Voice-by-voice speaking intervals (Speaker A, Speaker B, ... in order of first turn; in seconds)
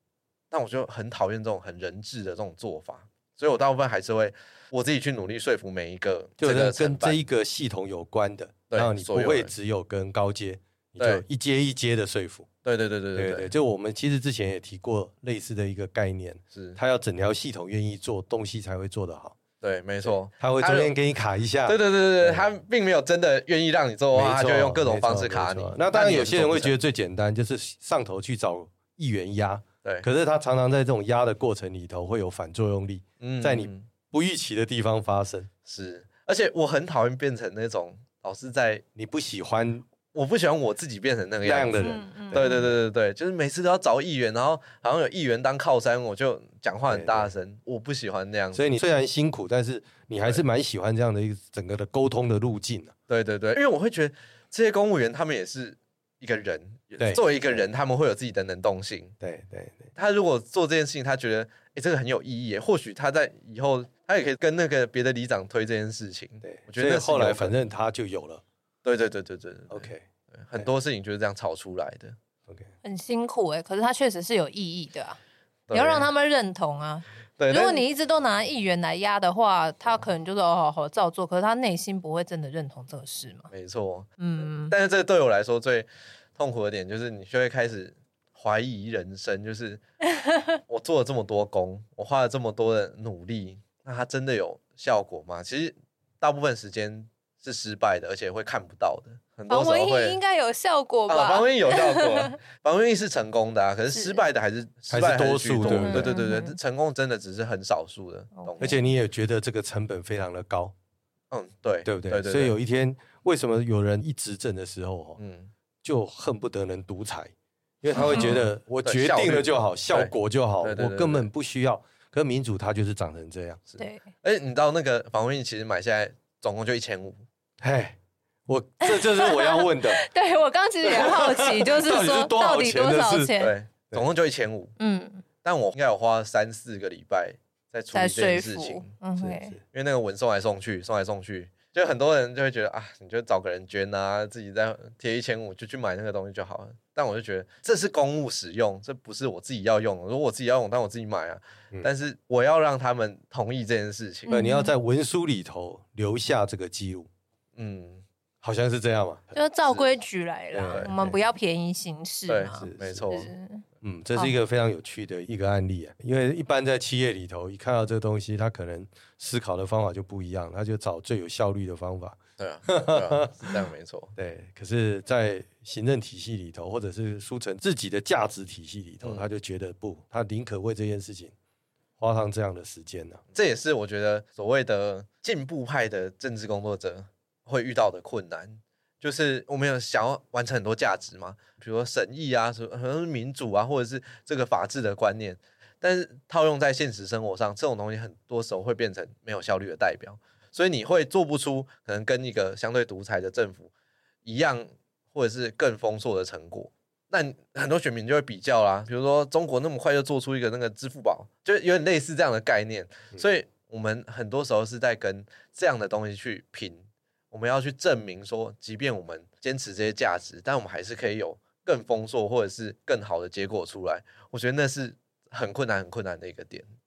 Speaker A: 0.5-7.2, 8.7-9.5, 11.0-11.2, 12.6-13.5, 16.5-16.8, 19.6-20.9, 21.6-26.8, 33.2-33.9, 35.6-38.8, 40.1-48.6, 53.1-59.1, 60.0-67.5, 68.8-72.2, 75.7-76.1, 77.4-77.8, 83.5-89.8, 90.7-100.2, 101.1-108.8, 111.3-112.5, 115.2-115.5, 118.0-121.3, 123.7-127.2, 133.4-134.7, 135.4-138.9, 139.7-154.3, 157.6-158.0, 160.6-161.1, 162.3-163.3, 172.4-174.1, 179.0-179.3, 183.3-203.7, 204.2-226.7
Speaker B: 6.4-12.5, 13.1-19.4, 20.4-22.4, 24.1-35.5, 39.0-39.8, 41.4-42.5, 46.9-47.3, 48.5-52.9, 57.0-57.6, 59.2-59.9, 66.4-68.4, 69.7-70.0, 104.9-106.1, 108.6-110.7, 111.8-115.2, 115.8-123.6, 127.6-130.0, 130.8-133.3, 139.2-139.6, 154.3-157.1, 158.4-159.4, 160.5-161.1, 162.6-163.1, 163.8-173.6, 174.2-181.3, 182.0-183.2
Speaker C: 41.8-42.7, 72.8-75.2, 75.7-83.5, 84.2-84.7, 99.5-102.3, 103.9-104.2, 105.7-106.5, 108.4-108.7, 117.9-118.4, 123.8-124.0, 128.8-133.5, 134.8-135.2, 137.9-139.5, 154.3-154.7, 159.3-164.4